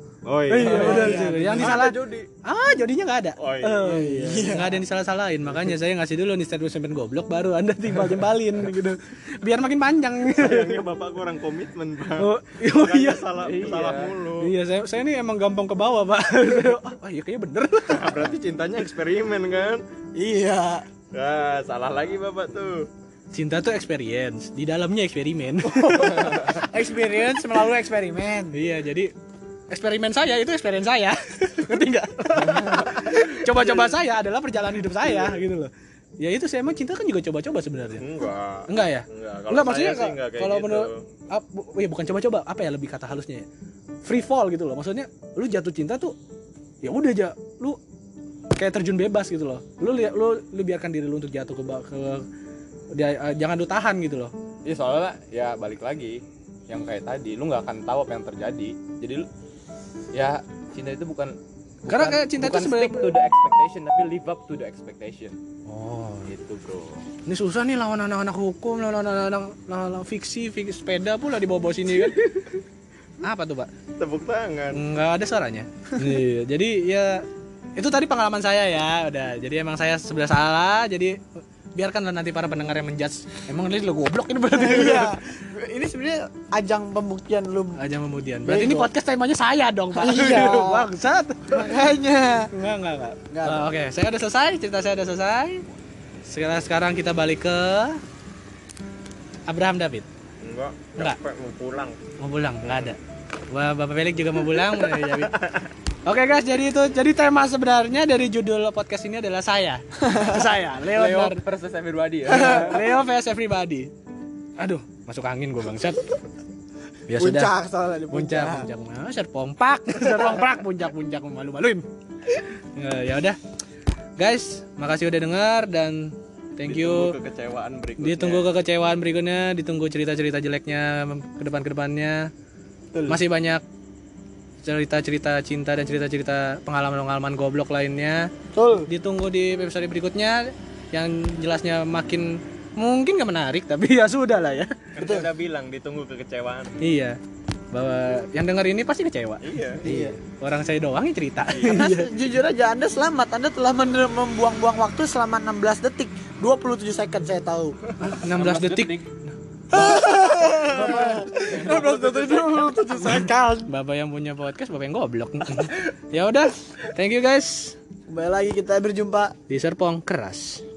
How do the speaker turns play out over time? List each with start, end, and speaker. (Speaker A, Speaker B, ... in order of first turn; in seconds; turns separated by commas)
Speaker A: 0.2-2.3, Speaker B: 0.5-10.8, Speaker C: 0.6-1.8, Speaker A: 3.4-4.0, Speaker C: 3.8-4.8, Speaker A: 10.4-14.5, Speaker B: 12.2-13.3, Speaker D: 13.4-14.1, Speaker B: 14.4-18.2, Speaker A: 17.9-19.8, Speaker C: 20.1-20.9, Speaker A: 21.1-22.9, Speaker B: 23.3-26.6, Speaker C: 26.0-28.6, Speaker B: 28.5-29.1, Speaker B: 29.7-38.0, Speaker A: 33.1-33.7, Speaker A: 38.0-41.0, Speaker B: 38.7-43.5, Speaker B: 44.0-46.1, Speaker B: 46.8-47.8, Speaker B: 48.5-52.2, Speaker B: 52.9-54.3, Speaker D: 54.6-59.3, Speaker D: 60.1-65.4, Speaker B: 61.9-63.2, Speaker B: 65.7-66.3, Speaker D: 66.3-67.1, Speaker B: 67.2-72.5, Speaker B: 73.2-73.7, Speaker A: 74.0-74.8, Speaker B: 74.7-77.2, Speaker B: 77.8-81.2, Speaker B: 81.8-85.1, Speaker C: 84.5-87.8, Speaker B: 87.8-91.8, Speaker C: 88.4-88.9, Speaker C: 89.9-90.9, Speaker C: 91.5-92.5, Speaker B: 92.5-95.7, Speaker C: 93.3-93.7, Speaker B: 96.2-98.0, Speaker B: 99.5-100.1, Speaker A: 100.4-102.0, Speaker B: 102.2-103.0, Speaker A: 102.6-102.9, Speaker B: 103.5-105.4, Speaker B: 106.0-111.4, Speaker C: 110.1-110.4, Speaker D: 110.9-112.7, Speaker C: 112.3-112.8, Speaker B: 112.3-113.9, Speaker B: 114.6-116.0, Speaker B: 117.1-117.5, Speaker C: 117.2-118.7, Speaker B: 118.1-121.8, Speaker B: 122.7-123.4, Speaker B: 124.2-127.1, Speaker A: 126.6-128.5, Speaker B: 128.0-132.3, Speaker B: 133.1-133.6, Speaker B: 134.6-138.3, Speaker C: 138.5-138.9, Speaker B: 138.9-144.7, Speaker A: 144.9-146.8, Speaker C: 145.0-145.3, Speaker B: 146.8-147.2, Speaker B: 147.7-152.1, Speaker A: 149.4-149.8, Speaker C: 149.8-150.1, Speaker A: 151.5-151.8, Speaker C: 151.6-157.8, Speaker B: 158.0-159.0, Speaker D: 158.3-159.1, Speaker C: 159.7-163.7, Speaker B: 159.7-160.1, Speaker B: 160.7-161.2, Speaker D: 160.8-161.9, Speaker A: 161.7-162.7, Speaker B: 162.9-167.8, Speaker C: 168.1-169.3, Speaker B: 169.5-170.6